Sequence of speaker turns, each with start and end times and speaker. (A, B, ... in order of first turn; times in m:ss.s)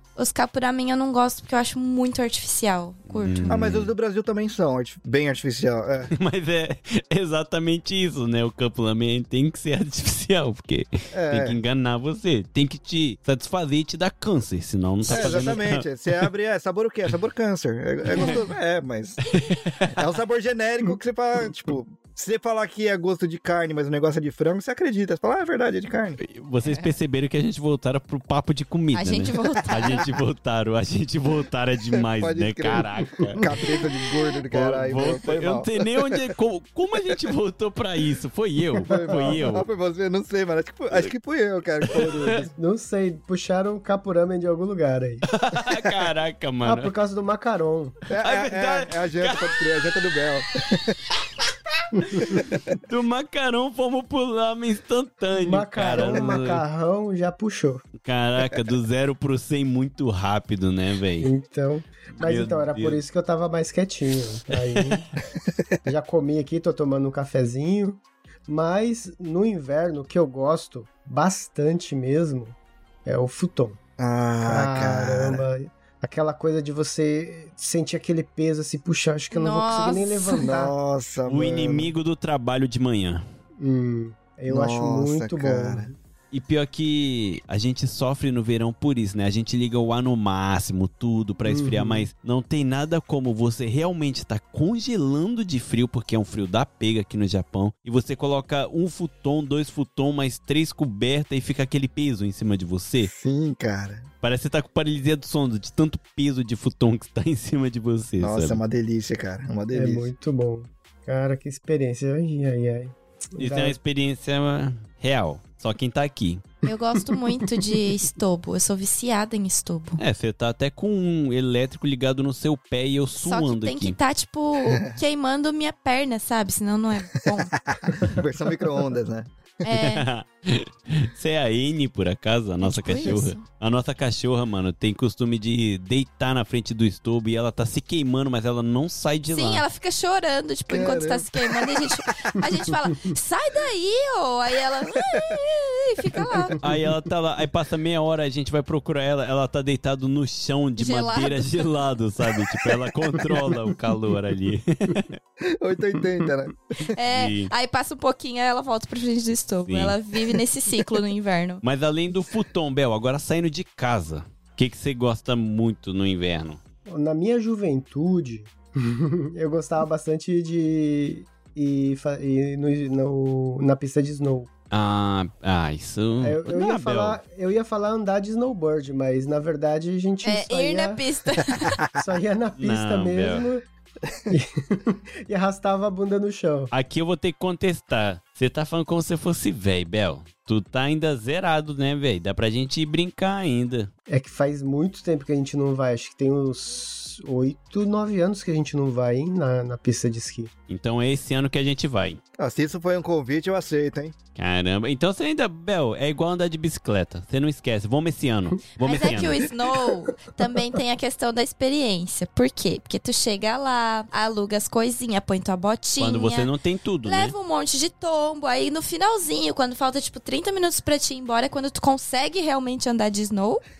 0:00.2-0:03.6 A
0:03.1-0:03.9 B
0:03.5-0:06.1 C
0:06.1-0:16.3 B
0:11.1-0:11.6 C
0:15.1-0:19.2 C
0:18.1-0:18.4 A
0:18.1-0:18.4 B
0:19.2-0:20.0 B
0:19.9-0:26.2 C
0:26.2-0:33.4 B
0:26.6-0:26.9 A
0:28.9-0:30.0 A
0:31.9-0:36.2 C
0:34.5-0:39.7 B
0:38.8-0:39.4 D
0:38.8-0:42.5 C
0:41.9-0:42.4 B
0:42.2-0:45.2 D
0:45.3-0:46.9 B
0:46.6-0:48.0 D
0:48.1-0:51.0 C
0:48.2-0:49.7 B
0:51.4-0:56.6 B
0:52.0-0:52.2 D
0:52.3-0:52.7 C
0:55.4-0:57.8 D
0:58.0-1:01.3 B
1:01.2-1:05.1 D
1:02.2-1:03.0 B
1:04.5-1:04.9 B
1:05.8-1:13.8 D
1:14.0-1:15.5 C
1:14.4-1:20.7 D
1:19.3-1:20.5 A
1:20.4-1:21.9 C
1:21.2-1:23.2 B
1:23.6-1:25.9 D
1:24.5-1:25.9 C
1:26.3-1:43.1 B
1:31.4-1:32.1 D
1:43.0-1:44.0 C
1:44.2-1:48.6 B
1:48.2-1:50.1 C
1:49.7-1:53.8 D
1:53.4-1:56.4 B
1:56.6-2:00.0 A
1:57.1-1:57.6 D
2:00.0-2:04.0 B
2:03.2-2:07.5 A
2:07.6-2:09.3 C
2:09.6-2:10.0 A
2:09.6-2:19.6 B
2:12.6-2:13.4 A
2:19.3-2:26.6 A
2:20.7-2:22.2 C
2:26.6-2:35.2 B
2:30.8-2:31.7 A
2:35.4-2:36.9 C
2:36.9-2:41.6 A
2:37.1-2:37.5 B
2:39.7-2:40.0 B
2:41.6-2:46.6 B
2:46.8-2:54.5 D
2:54.7-2:57.2 B
2:56.2-3:01.0 D
3:00.2-3:01.8 A
3:01.9-3:03.6 D
3:02.6-3:03.5 B
3:04.3-3:06.7 D
3:06.7-3:13.9 B
3:14.1-3:20.5 D
3:20.7-3:22.2 B
3:22.4-3:24.1 C
3:24.4-3:29.4 B
3:28.8-3:36.5 A
3:36.0-3:37.3 B
3:37.0-3:43.6 A